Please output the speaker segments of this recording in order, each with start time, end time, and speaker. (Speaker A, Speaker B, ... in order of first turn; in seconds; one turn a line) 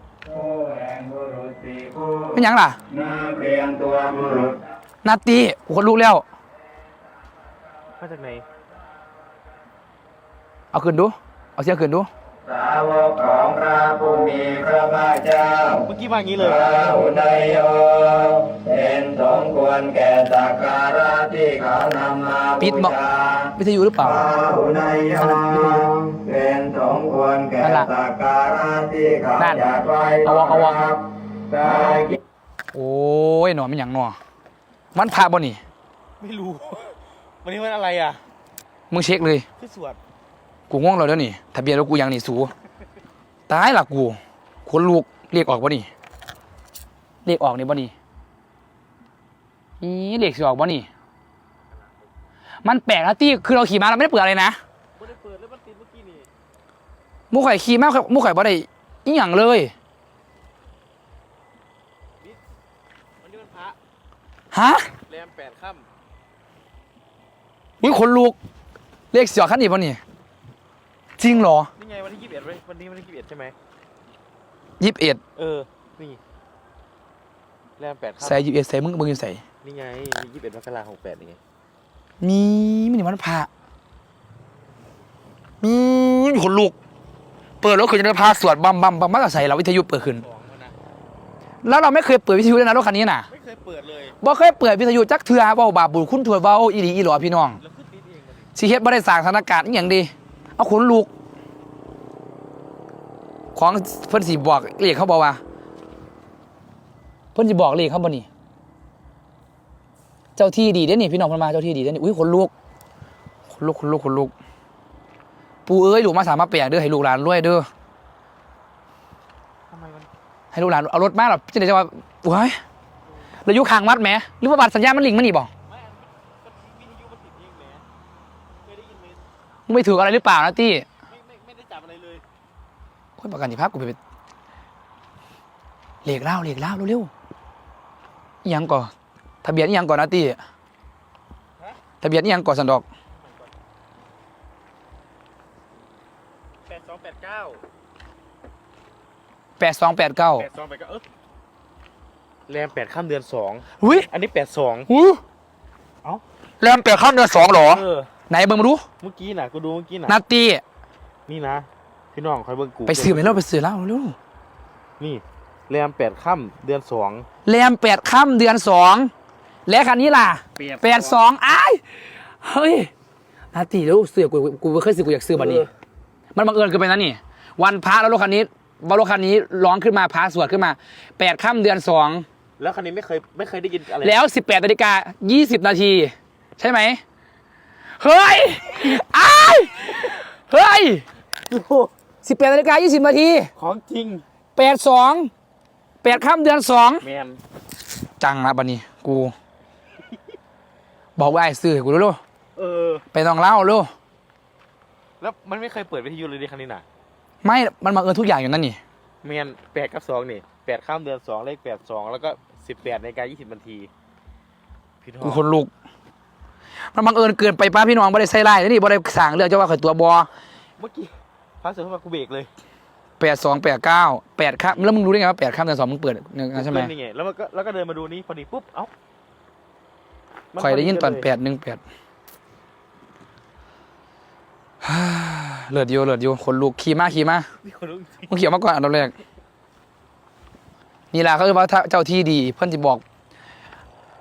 Speaker A: 0.3-2.3
Speaker B: 2.3-2.8
Speaker A: 2.9-4.6
Speaker B: 5.0-6.2
Speaker C: 7.9-8.4
Speaker B: 10.7-12.1
Speaker A: 12.4-15.8
Speaker C: 15.8-16.8
Speaker A: 16.4-23.5
Speaker B: 22.6-24.3
Speaker A: 24.1-32.1
Speaker B: 25.1-25.9
Speaker B: 27.6-27.9
Speaker B: 29.4-30.9
Speaker B: 32.7-34.2
Speaker B: 34.9-35.6
Speaker C: 36.2-38.2
Speaker B: 38.9-39.5
Speaker C: 39.6-40.0
Speaker B: 40.7-42.5
Speaker B: 43.5-45.9
Speaker B: 47.2-47.9
Speaker B: 49.8-50.9
Speaker C: 51.7-52.1
Speaker B: 52.6-54.6
Speaker C: 55.0-56.3
Speaker B: 57.3-59.7
Speaker C: 63.2-63.8
Speaker B: 64.5-64.9
Speaker C: 65.1-65.9
Speaker B: 67.8-68.4
Speaker B: 69.1-70.0
Speaker B: 71.2-71.7
Speaker C: 71.7-73.5
Speaker B: 74.8-75.2
Speaker C: 75.3-76.2
Speaker C: 77.8-78.4
Speaker B: 78.2-79.4
Speaker C: 79.6-81.4
Speaker B: 82.2-83.5
Speaker B: 85.6-86.7
Speaker B: 87.6-90.2
Speaker C: 90.0-90.8
Speaker B: 91.6-93.3
Speaker C: 93.3-94.2
Speaker B: 94.2-97.6
Speaker C: 97.6-98.5
Speaker B: 98.5-101.1
Speaker B: 103.5-105.4
Speaker B: 107.3-108.2
Speaker B: 110.3-112.5
Speaker B: 113.5-114.3
Speaker B: 115.7-117.7
Speaker C: 119.7-120.1
Speaker B: 120.5-122.6
Speaker B: 123.4-125.5
Speaker C: 125.6-127.8
Speaker C: 128.6-129.2
Speaker B: 129.7-130.8
Speaker C: 131.1-132.2
Speaker B: 133.2-134.0
Speaker B: 136.0-137.1
Speaker B: 138.4-138.9
Speaker B: 139.4-140.4
Speaker B: 142.0-142.8
Speaker C: 143.1-143.5
Speaker C: 146.7-147.6
Speaker B: 149.6-150.5
Speaker C: 150.3-151.0
Speaker C: 152.5-154.9
Speaker B: 153.8-154.1
Speaker B: 154.9-155.2
Speaker B: 156.6-158.8
Speaker C: 157.4-158.1
Speaker C: 159.0-160.2
Speaker B: 160.1-160.6
Speaker C: 161.3-163.4
Speaker B: 162.9-164.2
Speaker C: 165.0-167.2
Speaker B: 167.4-169.1
Speaker B: 169.7-172.9
Speaker C: 170.6-171.2
Speaker B: 173.5-175.7
Speaker C: 175.3-175.7
Speaker B: 176.3-182.2
Speaker C: 182.6-184.2
Speaker B: 184.0-187.0
Speaker B: 188.0-191.0
Speaker C: 191.5-191.9
Speaker B: 192.2-193.5
Speaker C: 193.6-194.2
Speaker B: 194.6-195.3
Speaker B: 196.0-197.0
Speaker C: 197.0-197.4
Speaker B: 198.2-199.3
Speaker B: 201.2-202.2
Speaker C: 202.6-203.0
Speaker B: 203.1-203.9
Speaker C: 205.2-206.8
Speaker B: 207.4-208.8
Speaker C: 209.2-213.9
Speaker C: 215.0-215.5
Speaker B: 215.2-215.7
Speaker B: 216.9-220.3
Speaker C: 220.8-222.5
Speaker B: 223.2-226.9
Speaker C: 224.6-224.9
Speaker C: 226.5-228.9
Speaker C: 230.5-231.3
Speaker B: 230.6-231.8
Speaker B: 234.8-237.5
Speaker C: 237.6-238.3
Speaker B: 238.3-239.2
Speaker B: 241.1-243.0